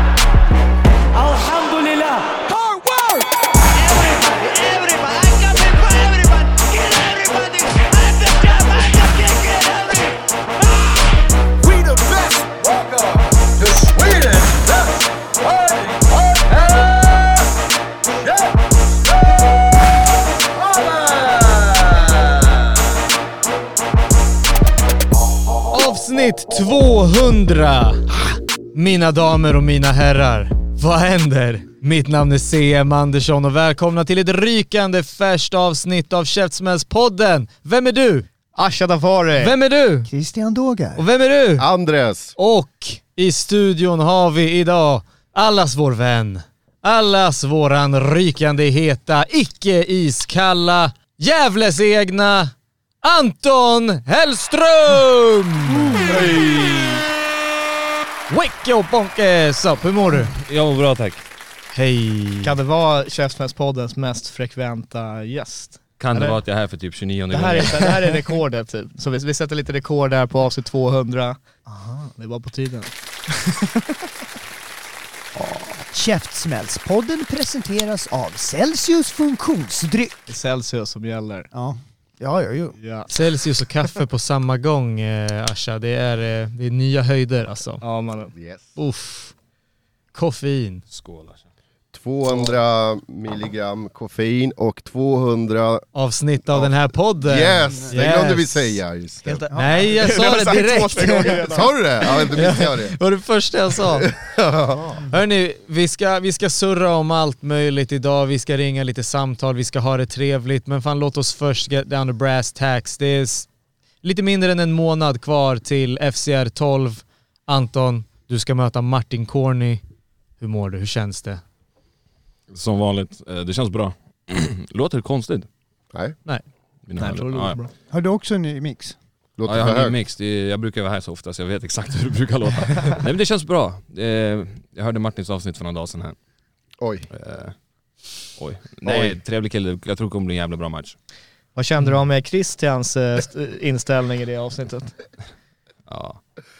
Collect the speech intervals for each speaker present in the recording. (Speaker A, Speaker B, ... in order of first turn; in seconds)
Speaker A: 1.1-3.2, 3.8-10.0, 11.7-12.8, 13.7-14.5, 16.7-17.1
Speaker B: 1.2-2.9, 3.9-7.8, 8.3-10.1, 40.1-41.0, 75.3-80.2, 81.5-82.8, 99.5-99.8, 127.9-128.9
Speaker C: 25.7-38.3, 39.4-40.1, 41.0-41.7, 42.4-56.2, 58.3-60.4, 61.7-62.5, 83.1-87.8, 88.8-89.3, 90.1-90.8, 95.9-98.8, 99.5-104.1, 105.0-113.5, 114.0-119.8, 120.4-121.4
Speaker D: 38.5-39.5, 62.4-66.4, 67.3-73.7, 80.3-81.5, 82.8-83.1, 87.8-88.3, 92.2-92.5, 99.3-101.7, 127.0-127.7, 141.6-144.9
Speaker E: 41.6-42.4, 88.3-88.7, 91.9-95.9, 96.5-99.4, 101.5-103.0, 103.8-105.0, 129.4-130.0, 136.8-137.1, 138.8-139.1
Speaker F: 56.1-57.0, 60.4-61.2, 66.0-68.0, 90.9-91.4, 122.5-125.5, 126.9-127.6, 129.4-136.2, 137.1-137.5, 138.3-140.9, 145.9-146.2